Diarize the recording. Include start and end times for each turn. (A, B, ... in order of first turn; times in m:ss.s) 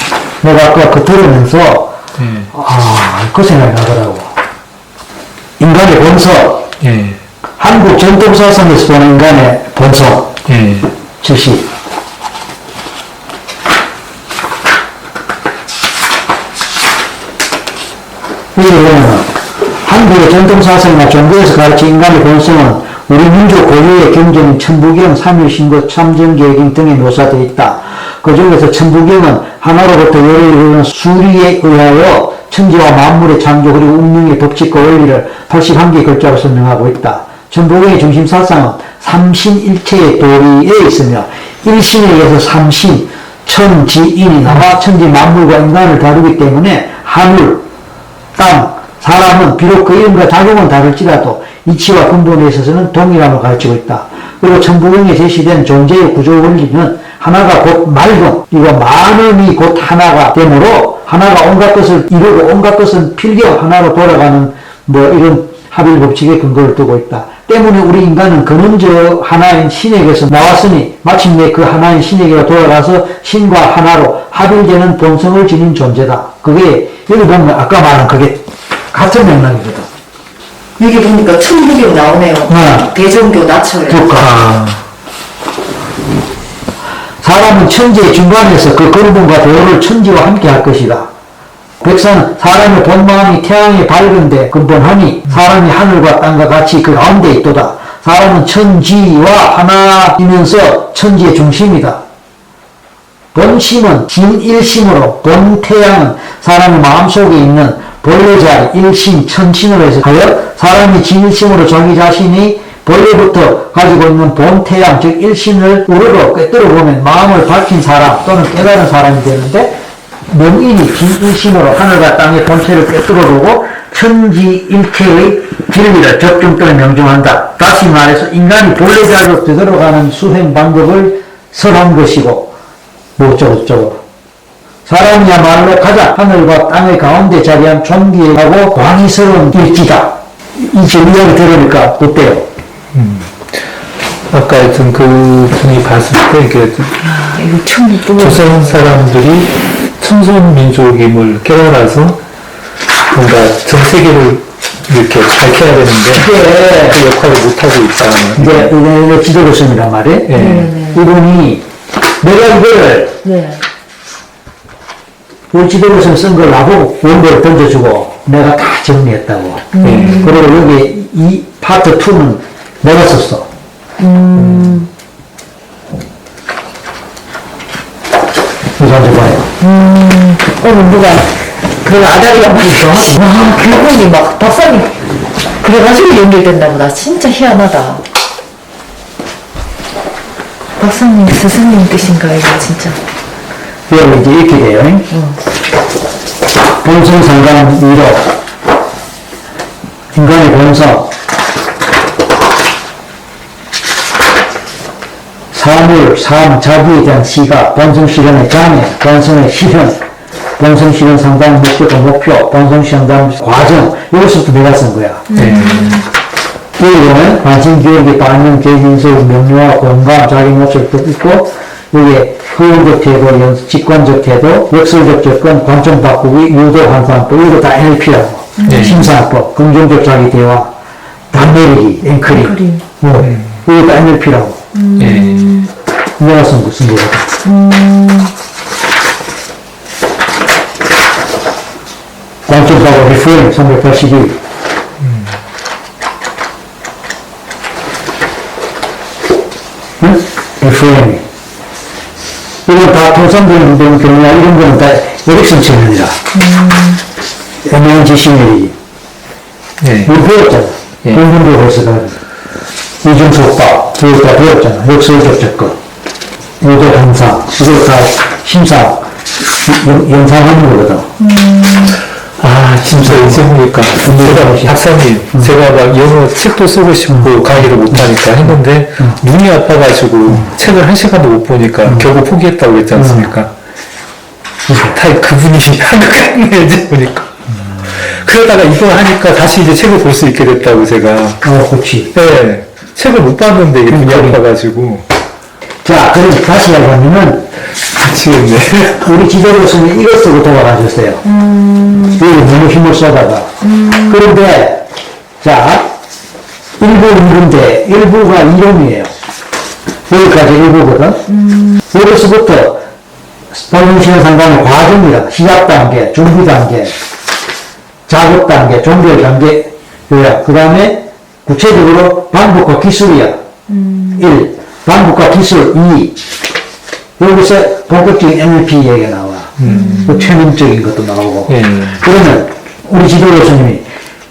0:00.4-0:02.0 A
0:02.2-0:02.5 B
0:02.5-0:04.3 A
0:05.6-0:06.7 A
0:06.8-0:07.2 B
0:07.6-0:10.3 A
0:10.5-0:10.9 B
0:11.2-0:11.7 A
0:18.6-0:47.6 A
0:48.4-1:19.9 A
1:20.8-1:24.1 C
1:22.5-1:22.9 A
1:23.9-1:24.5 A
1:24.2-1:24.8 B
1:27.2-1:31.1 A
1:31.8-1:42.0 A
1:43.3-2:12.5 A
2:13.2-2:14.0 A
2:14.9-2:22.5 A
2:22.9-2:23.5 B
2:24.3-2:27.0 B
2:27.0-2:29.0 C
2:28.1-2:32.2 B
2:33.1-2:38.7 B
2:36.1-2:37.0 A
2:38.4-2:41.6 A
2:40.3-2:40.7 B
2:40.3-2:41.0 C
2:42.2-2:43.2 A
2:43.2-2:43.6 C
2:45.5-2:53.5 A
2:49.7-2:50.4 C
2:49.8-2:50.3 B
2:54.0-2:54.9 C
2:54.4-2:54.8 B
2:58.8-2:59.5 A
2:59.6-3:08.0 C
3:02.5-3:03.3 A
3:10.8-3:13.0 C
3:13.9-3:15.1 A
3:15.1-3:15.4 C
3:16.8-3:18.3 A
3:20.1-3:21.1 A
3:25.5-3:30.0 A
3:30.6-3:35.3 A
3:35.3-3:36.0 C
3:35.3-3:36.1 B
3:36.8-3:50.7 A
3:48.6-3:49.0 C
3:48.7-3:49.1 B
3:51.3-3:54.6 A
3:52.3-3:52.8 C
3:54.7-3:55.7 C
3:55.0-3:55.6 B
3:56.2-3:57.4 A
3:57.4-3:58.3 C
4:02.5-4:04.4 A
4:05.0-4:05.4 B
4:10.0-4:11.2 A
4:12.7-4:16.2 A
4:16.3-4:17.0 C
4:17.6-4:18.8 A
4:19.8-4:20.1 B
4:20.0-4:22.2 A
4:23.0-4:25.8 A
4:26.6-4:31.1 A
4:31.2-4:32.0 C
4:32.4-4:43.5 B
4:32.8-4:34.8 A
4:41.8-4:42.1 A
4:43.0-4:43.3 A
4:44.7-4:45.0 A
4:44.9-4:51.4 B
4:51.4-4:52.1 A
4:52.1-4:55.1 B
4:53.9-4:54.4 A
4:55.8-4:57.5 A
4:58.0-4:59.1 B
4:59.0-5:01.2 A
5:01.2-5:02.2 C
5:02.1-5:04.8 A
5:03.6-5:04.4 C
5:05.4-5:05.9 A
5:06.8-5:09.1 A
5:10.1-5:11.3 A
5:11.3-5:11.8 C
5:11.8-5:12.8 A
5:13.5-5:17.0 A
5:18.1-5:23.4 A
5:23.7-5:24.2 C
5:24.1-5:26.2 A
5:27.2-5:33.8 A
5:29.6-5:30.2 B
5:29.6-5:30.3 C
5:31.5-5:32.0 B